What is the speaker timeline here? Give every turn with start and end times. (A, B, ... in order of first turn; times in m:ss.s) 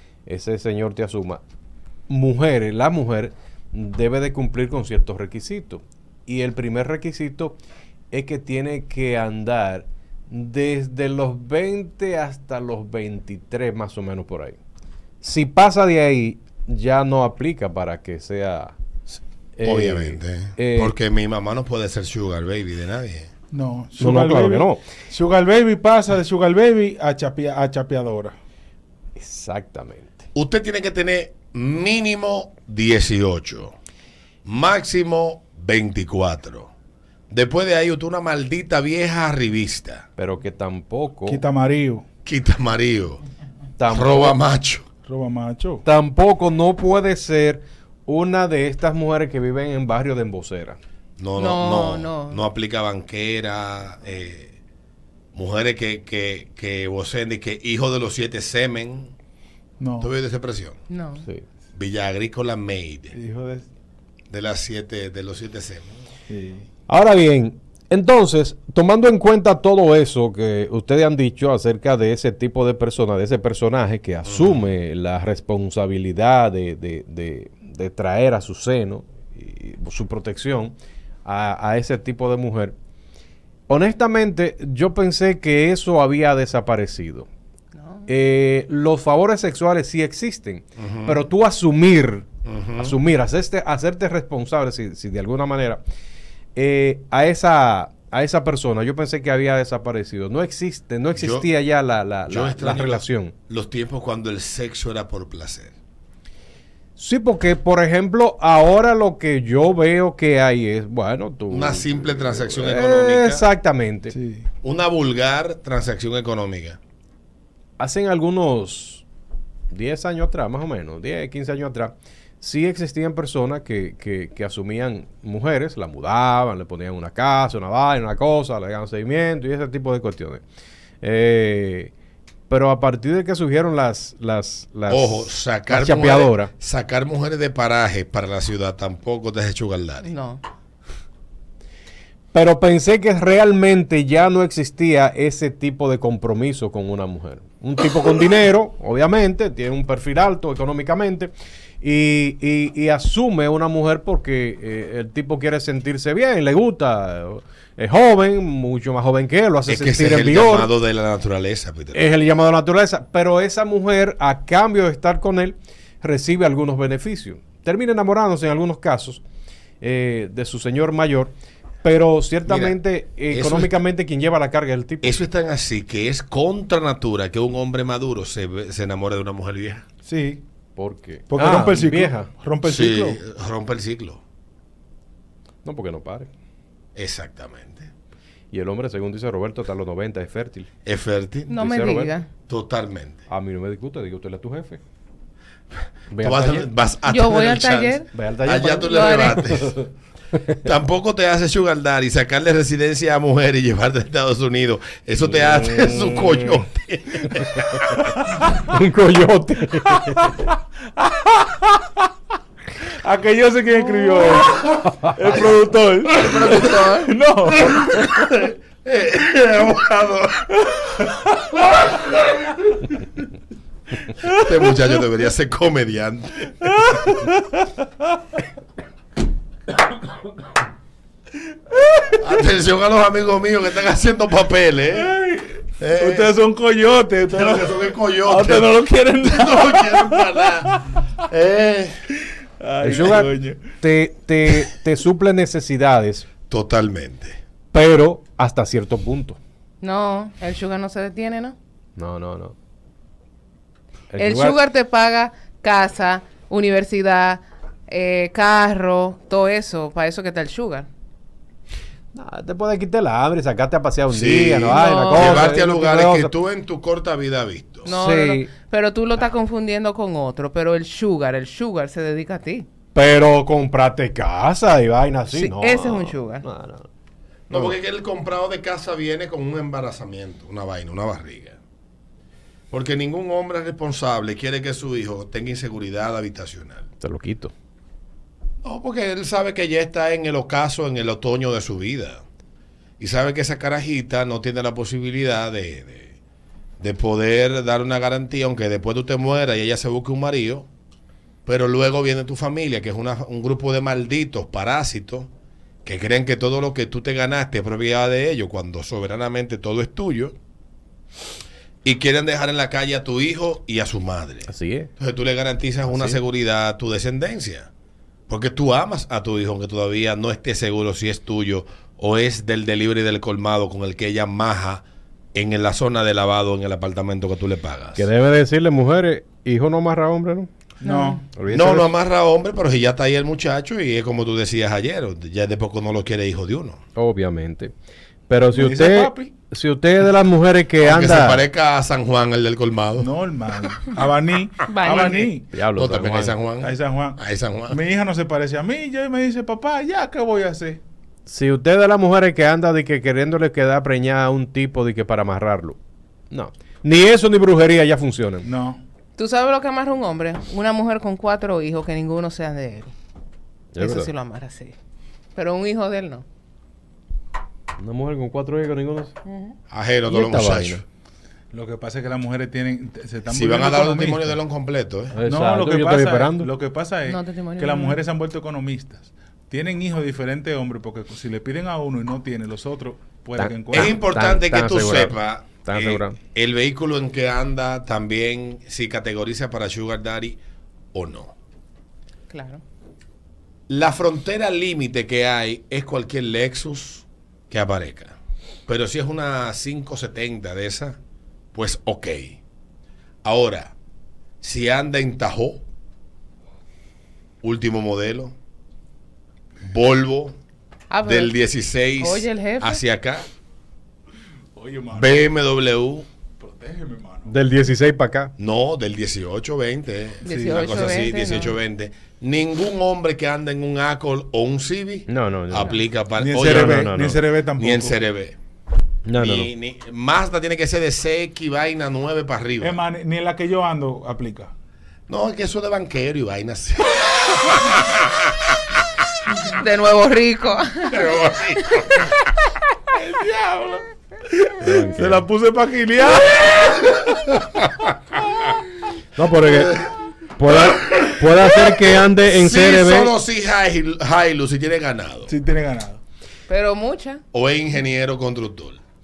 0:00.3-0:01.4 A
0:02.1-0:07.6 A
0:08.1-0:14.6 A
0:15.2-0:18.8 A
0:19.6-0:21.0 A
0:19.6-0:23.3 B
0:23.5-0:28.4 C
0:24.0-0:24.8 A
0:29.2-0:30.2 A
0:30.3-0:33.7 B
0:34.4-0:36.7 B
0:37.3-0:40.0 B
0:40.2-0:41.4 A
0:41.3-0:42.0 C
0:42.2-0:43.2 B
0:43.8-0:44.4 A
0:43.9-0:44.8 B
0:45.0-0:45.8 C
0:45.8-0:50.8 A
0:51.2-0:54.5 B
0:51.4-0:52.4 D
0:55.3-0:59.1 B
0:59.8-1:00.1 C
1:00.0-1:00.8 B
1:00.9-1:01.2 D
1:01.7-1:03.1 B
1:03.1-1:03.7 C
1:04.3-1:06.0 B
1:06.3-1:06.6 C
1:06.9-1:22.7 A
1:14.2-1:14.6 B
1:23.7-1:27.3 A
1:27.7-1:28.1 D
1:28.1-1:32.2 A
1:30.8-1:31.2 B
1:32.4-1:33.0 B
1:32.8-1:35.8 A
1:36.5-1:43.3 A
1:41.1-1:41.5 B
1:42.3-1:45.7 B
1:47.0-1:54.2 A
1:51.5-1:53.5 B
1:54.1-1:54.4 C
1:54.6-1:56.8 B
1:57.8-1:59.0 A
1:59.7-2:10.4 A
2:11.0-2:11.9 A
2:12.5-2:16.5 A
2:14.9-2:20.1 B
2:20.0-2:20.4 D
2:22.3-2:40.7 A
2:39.7-2:42.1 B
2:41.9-2:49.2 A
2:49.8-2:55.2 A
2:52.4-2:53.8 B
2:55.0-2:59.8 B
3:00.0-3:00.4 C
3:00.8-3:02.3 A
3:01.3-3:03.2 C
3:02.6-3:04.2 B
3:05.6-3:06.3 A
3:06.9-3:07.9 B
3:08.5-3:10.7 A
3:10.8-3:11.5 B
3:11.5-3:12.3 D
3:11.5-3:12.2 A
3:12.5-3:13.2 B
3:13.3-3:14.8 A
3:16.1-3:16.7 A
3:16.2-3:19.8 B
3:17.0-3:18.1 D
3:18.1-3:19.8 A
3:18.8-3:19.5 D
3:20.6-3:27.9 B
3:25.2-3:26.6 A
3:28.5-3:30.4 A
3:31.0-3:31.7 C
3:32.8-3:38.1 C
3:36.1-3:37.1 D
3:36.2-3:36.6 B
3:37.7-3:40.5 B
3:40.6-3:43.0 C
3:44.3-3:46.7 B
3:46.6-3:47.8 C
3:51.7-3:52.2 C
3:52.2-3:55.1 B
3:55.0-4:00.8 C
3:55.8-3:56.3 B
3:57.3-4:00.7 B
4:01.3-4:02.0 B
4:02.6-4:03.7 C
4:02.8-4:06.3 A
4:06.5-4:07.4 B
4:07.7-4:09.4 A
4:09.8-4:11.6 D
4:12.0-4:12.5 A
4:14.1-4:14.6 A
4:14.2-4:20.9 D
4:22.1-4:26.3 A
4:24.1-4:27.9 B
4:24.7-4:25.6 D
4:27.8-4:32.7 D
4:27.9-4:28.5 A
4:32.9-4:36.9 A
4:35.3-4:36.4 D
4:37.5-4:41.6 B
4:37.5-4:37.8 A
4:42.7-4:46.9 B
4:47.0-4:47.5 A
4:48.6-4:52.2 B
4:53.0-4:56.2 B
4:56.8-5:00.7 B
5:01.4-5:05.3 B
5:05.8-5:10.4 B
5:11.8-5:17.7 B
5:14.5-5:14.9 A
5:15.9-5:16.2 A
5:18.3-5:28.1 B
5:28.0-5:30.5 A
5:30.8-5:31.2 C
5:30.8-5:31.2 D
5:31.3-5:31.9 A
5:31.5-5:36.8 B
5:37.0-5:37.7 A
5:38.3-5:41.4 A
5:38.5-5:39.3 C
5:40.8-5:43.1 B
5:43.0-5:45.5 C
5:44.6-5:45.3 D
5:45.5-5:46.4 A
5:45.7-5:47.8 B
5:46.6-5:47.2 C
5:47.7-5:50.8 C
5:51.2-5:55.8 A
5:56.3-5:58.5 A
5:58.4-5:58.8 C
5:59.2-6:02.9 D
6:03.7-6:04.1 A
6:03.8-6:04.8 D
6:05.3-6:06.2 D
6:07.8-6:09.1 A
6:09.2-6:09.6 D
6:09.7-6:10.8 B
6:10.0-6:10.8 A
6:11.5-6:14.3 C
6:13.3-6:15.2 B
6:15.1-6:16.5 A
6:15.2-6:23.9 C
6:17.0-6:18.0 D
6:23.4-6:26.2 A
6:23.7-6:30.4 B
6:30.9-6:31.3 B
6:32.3-6:32.6 D
6:33.7-6:41.0 B
6:41.5-6:42.4 B
6:43.2-6:43.7 B
6:44.4-6:45.6 B
6:47.4-6:48.3 B
6:49.6-6:50.4 B
6:50.9-6:51.3 D
6:51.0-6:53.3 B
6:52.0-6:52.8 D
6:54.6-6:55.3 C
6:54.9-6:56.1 B
6:56.4-6:57.3 C
6:57.2-6:58.3 A
6:58.4-7:06.8 B
7:00.2-7:01.0 C
7:00.2-7:01.5 D
7:05.1-7:05.8 A
7:06.2-7:08.1 C
7:06.3-7:07.2 A
7:07.6-7:08.4 B
7:09.0-7:09.5 A
7:09.2-7:12.8 B
7:12.6-7:14.5 C
7:15.1-7:18.3 B
7:19.6-7:21.1 D
7:20.9-7:22.0 B
7:21.7-7:22.2 D
7:22.9-7:27.4 C
7:24.7-7:25.2 B
7:29.2-7:29.8 A
7:30.4-7:33.1 A
7:30.9-7:35.3 B
7:35.3-7:36.0 C
7:36.5-7:37.2 D
7:37.3-7:38.8 B